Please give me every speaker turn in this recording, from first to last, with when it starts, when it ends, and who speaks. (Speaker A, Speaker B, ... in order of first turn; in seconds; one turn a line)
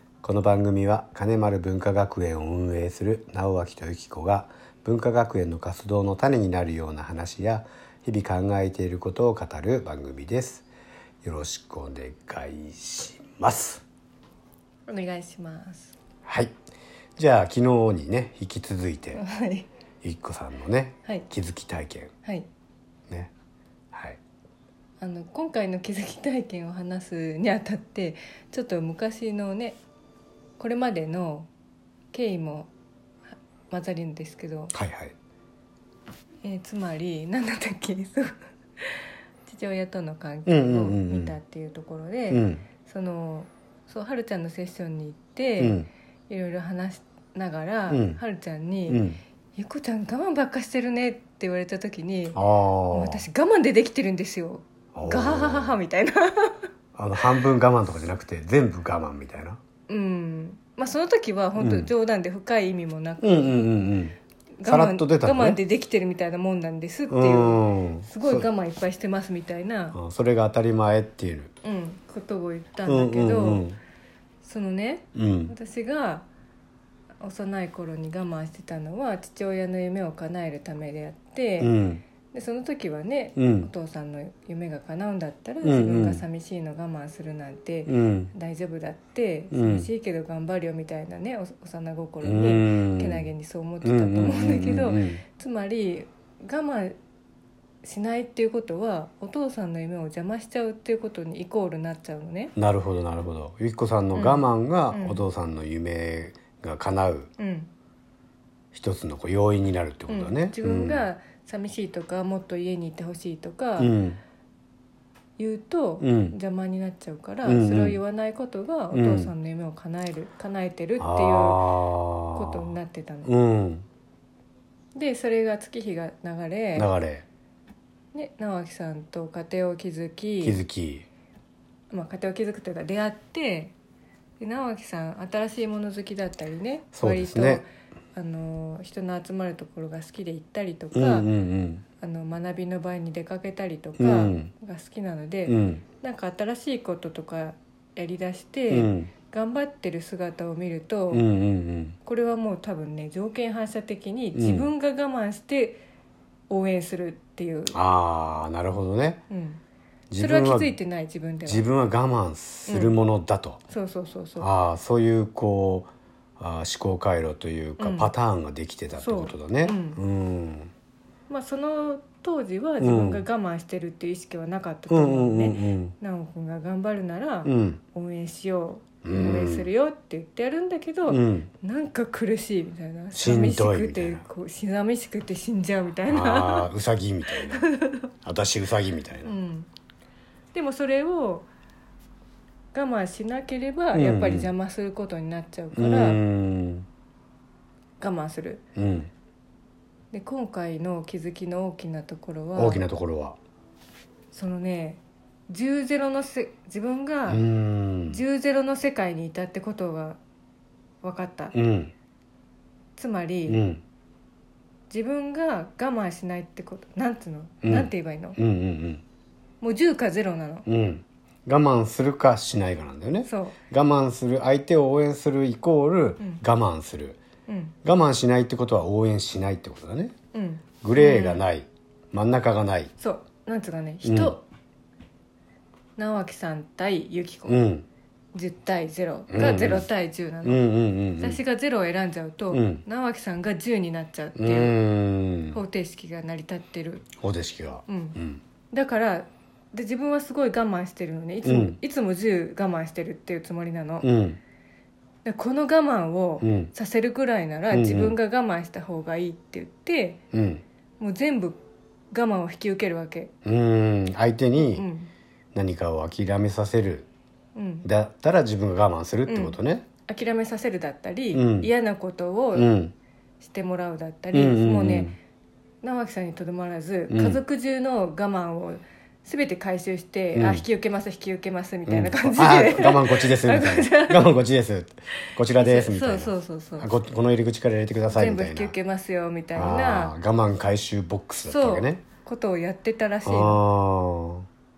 Speaker A: 0.2-10.7
Speaker A: 11.2-13.8
Speaker B: 14.9-15.9
Speaker A: 16.2-16.5
Speaker A: 17.2-19.2
Speaker B: 19.1-19.7
Speaker A: 20.0-22.1
Speaker A: 23.9-24.2
Speaker B: 25.0-29.8
Speaker B: 30.6-31.5
Speaker B: 32.1-32.7
Speaker B: 33.7-34.7
Speaker A: 34.7-35.1
Speaker B: 36.4-52.4
Speaker A: 40.5-41.4
Speaker A: 42.3-42.6
Speaker A: 45.6-45.9
Speaker A: 47.9-48.2
Speaker A: 48.9-49.2
Speaker A: 52.3-53.2
Speaker B: 52.9-56.7
Speaker A: 54.9-55.8
Speaker A: 57.0-59.6
Speaker B: 59.9-63.7
Speaker A: 61.6-61.9
Speaker A: 63.2-65.6
Speaker B: 64.6-70.0
Speaker A: 67.1-68.5
Speaker A: 69.9-71.5
Speaker B: 71.6-73.7
Speaker A: 72.8-73.8
Speaker B: 74.4-76.2
Speaker A: 75.1-75.5
Speaker B: 77.2-81.7
Speaker A: 81.6-82.0
Speaker B: 82.3-96.9
Speaker A: 83.3-83.7
Speaker A: 85.6-86.2
Speaker A: 87.8-88.3
Speaker A: 89.5-89.9
Speaker A: 92.2-93.3
Speaker A: 93.8-95.2
Speaker B: 97.8-102.5
Speaker A: 102.5-107.3
Speaker B: 104.1-105.2
Speaker B: 107.4-107.7
Speaker A: 108.7-111.1
Speaker B: 110.1-113.9
Speaker A: 113.8-114.2
Speaker B: 115.4-121.7
Speaker A: 116.0-116.3
Speaker A: 117.4-118.0
Speaker A: 118.9-119.3
Speaker A: 121.0-122.7
Speaker B: 122.3-123.3
Speaker A: 123.2-123.8
Speaker B: 124.9-126.9
Speaker A: 126.7-127.3
Speaker B: 128.1-130.6
Speaker A: 130.4-131.1
Speaker B: 131.9-133.7
Speaker B: 134.4-141.3
Speaker A: 136.9-137.6
Speaker A: 140.9-141.8
Speaker B: 142.0-151.2
Speaker A: 144.0-144.5
Speaker A: 145.4-145.8
Speaker A: 148.7-149.1
Speaker A: 151.1-151.9
Speaker B: 152.0-155.8
Speaker A: 154.3-154.7
Speaker B: 156.5-157.8
Speaker A: 157.7-159.2
Speaker B: 159.3-159.6
Speaker A: 160.1-160.8
Speaker B: 160.2-161.7
Speaker A: 161.4-163.6
Speaker B: 162.7-162.9
Speaker B: 163.7-164.5
Speaker A: 164.4-170.7
Speaker B: 167.8-168.1
Speaker B: 168.9-170.0
Speaker B: 171.3-186.7
Speaker A: 172.8-173.2
Speaker A: 174.9-175.9
Speaker A: 177.4-177.8
Speaker A: 179.0-179.7
Speaker A: 181.1-181.5
Speaker A: 183.1-184.2
Speaker A: 186.1-187.6
Speaker B: 187.5-188.1
Speaker A: 188.2-189.3
Speaker B: 189.2-189.7
Speaker B: 190.5-191.5
Speaker B: 192.7-196.2
Speaker A: 193.9-194.5
Speaker A: 195.7-196.8
Speaker B: 198.0-198.6
Speaker A: 198.7-199.1
Speaker B: 200.1-202.8
Speaker A: 202.6-203.4
Speaker B: 204.3-207.4
Speaker A: 207.3-208.2
Speaker B: 208.1-210.2
Speaker B: 211.0-211.5
Speaker A: 211.5-211.9
Speaker B: 213.0-213.6
Speaker A: 213.4-213.8
Speaker B: 214.9-218.4
Speaker A: 217.6-219.0
Speaker B: 219.6-220.7
Speaker A: 220.7-227.2
Speaker B: 223.2-223.6
Speaker B: 227.5-227.8
Speaker A: 227.8-230.1
Speaker B: 230.3-231.4
Speaker A: 230.8-232.9
Speaker B: 233.0-234.4
Speaker A: 234.0-234.3
Speaker B: 236.0-237.6
Speaker A: 237.5-237.8
Speaker B: 238.3-240.6
Speaker A: 239.3-239.9
Speaker A: 240.4-241.4
Speaker B: 241.2-244.8
Speaker A: 242.5-242.8
Speaker A: 244.4-245.6
Speaker B: 245.5-247.1
Speaker A: 247.2-248.4
Speaker B: 247.9-248.2
Speaker B: 248.7-254.1
Speaker A: 251.4-251.8
Speaker A: 254.0-254.4
Speaker B: 255.2-260.2
Speaker A: 256.4-256.7
Speaker A: 257.7-258.1
Speaker A: 260.3-260.6
Speaker B: 261.0-261.6
Speaker B: 262.1-263.3
Speaker A: 263.4-264.9
Speaker B: 264.6-265.1
Speaker A: 265.5-267.1
Speaker B: 267.5-267.9
Speaker A: 267.8-269.9
Speaker B: 269.2-272.7
Speaker A: 271.3-271.7
Speaker A: 272.5-272.9
Speaker B: 273.4-275.1
Speaker A: 274.3-275.1
Speaker B: 275.8-284.3
Speaker A: 277.1-277.4
Speaker A: 280.3-280.6
Speaker A: 281.9-288.7
Speaker B: 285.5-286.9
Speaker B: 288.1-290.1
Speaker A: 289.5-292.0
Speaker B: 291.4-293.6
Speaker A: 293.2-294.4